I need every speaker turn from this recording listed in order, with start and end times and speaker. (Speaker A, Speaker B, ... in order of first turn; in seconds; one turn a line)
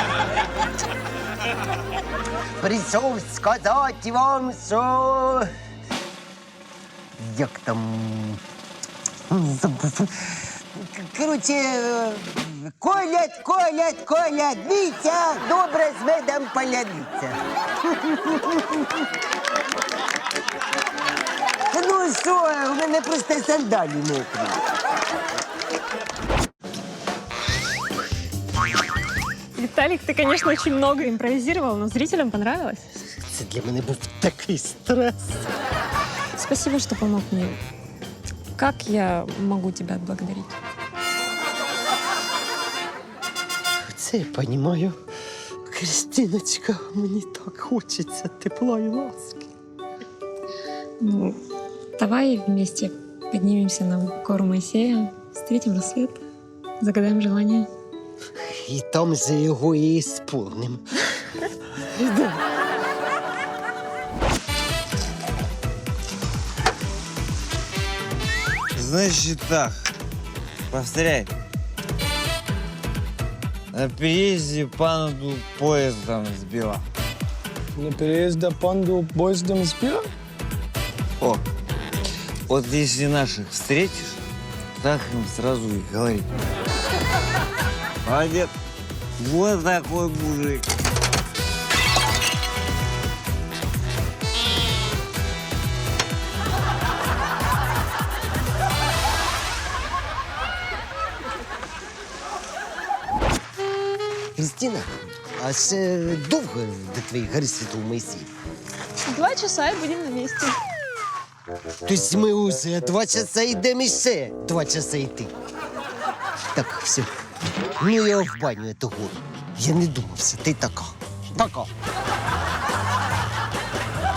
Speaker A: 2.6-5.5
Speaker A: 7.2-8.4
Speaker A: 9.3-19.0
Speaker A: 21.7-24.6
Speaker B: 29.6-32.8
Speaker A: 33.3-35.5
Speaker B: 36.4-37.6
Speaker B: 38.6-40.5
Speaker A: 43.8-45.0
Speaker A: 45.7-49.5
Speaker B: 52.0-52.8
Speaker B: 53.3-54.6
Speaker B: 56.9-57.5
Speaker A: 58.6-60.8
Speaker A: 62.0-62.3
Speaker C: 68.8-69.7
Speaker C: 70.7-71.3
Speaker C: 73.7-76.8
Speaker D: 77.8-80.1
Speaker C: 82.5-84.2
Speaker C: 84.8-86.3
Speaker C: 88.0-88.5
Speaker C: 89.2-90.6
Speaker A: 104.3-108.3
Speaker B: 109.1-110.5
Speaker A: 111.8-115.3
Speaker A: 116.5-117.1
Speaker A: 117.8-121.7